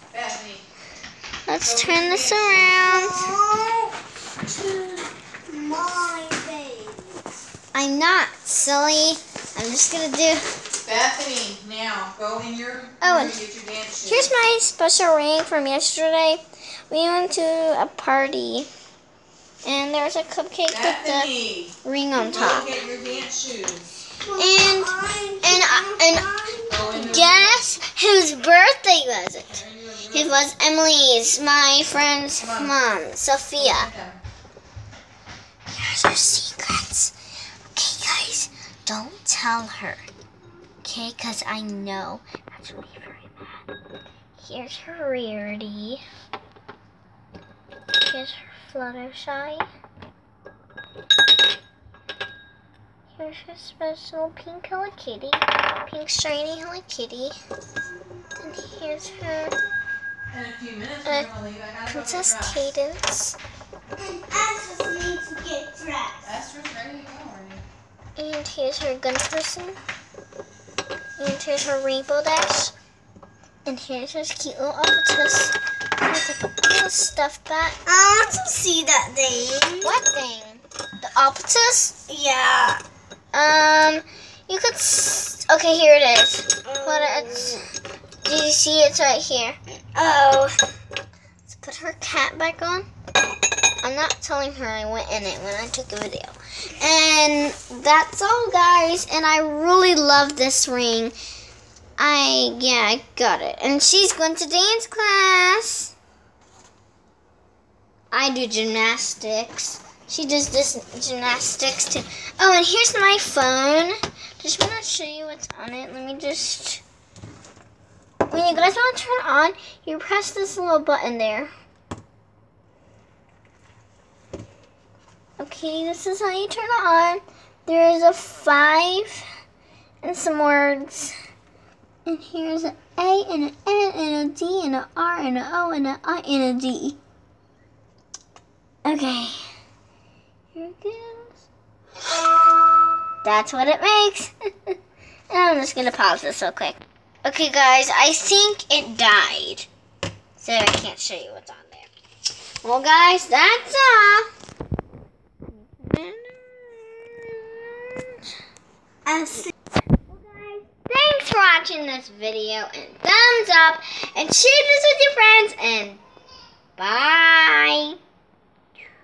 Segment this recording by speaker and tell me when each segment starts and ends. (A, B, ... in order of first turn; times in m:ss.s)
0:00.1-0:00.6 A
0:01.5-0:03.3 B
0:01.6-0:02.8 A
0:02.8-0:07.2 C
0:07.7-0:10.4 B
0:10.8-0:14.3 A
0:13.0-0:13.4 B
0:14.0-0:18.7 B
0:19.6-0:21.3 B
0:20.7-0:21.7 A
0:21.8-0:22.8 B
0:22.3-0:23.1 C
0:22.3-0:23.9 A
0:24.2-0:26.9 C
0:24.4-0:26.3 B
0:26.7-0:27.6 A
0:26.9-0:33.9 B
0:29.5-0:30.4 A
0:32.4-0:32.7 A
0:33.6-0:34.2 A
0:35.7-0:37.1 B
0:37.7-0:40.1 B
0:40.8-0:43.6 B
0:44.4-0:46.0 B
0:48.0-0:49.7 B
0:53.1-0:57.4 B
0:57.9-0:59.4 C
0:58.4-0:59.5 B
1:00.3-1:02.6 A
1:01.0-1:01.3 B
1:01.9-1:03.4 B
1:04.0-1:06.3 C
1:06.2-1:07.6 A
1:08.2-1:09.8 B
1:11.2-1:12.7 B
1:13.6-1:17.8 B
1:17.9-1:20.0 C
1:19.8-1:22.0 B
1:22.1-1:22.8 C
1:23.3-1:27.6 B
1:26.6-1:27.7 C
1:28.2-1:29.6 B
1:29.9-1:30.6 C
1:31.5-1:32.9 B
1:33.8-1:41.1 B
1:42.0-1:45.9 B
1:48.1-1:56.8 B
1:58.3-2:01.5 B
2:05.4-2:09.2 B
2:10.0-2:11.1 B
2:12.1-2:17.0 B
2:18.8-2:19.4 B
2:20.5-2:21.5 B
2:23.2-2:24.8 B
2:25.3-2:29.7 B
2:30.4-2:31.9 B
2:32.6-2:34.3 B
2:35.6-2:38.1 B
2:39.1-2:39.5 C
2:39.4-2:46.0 B
2:46.8-2:48.0 B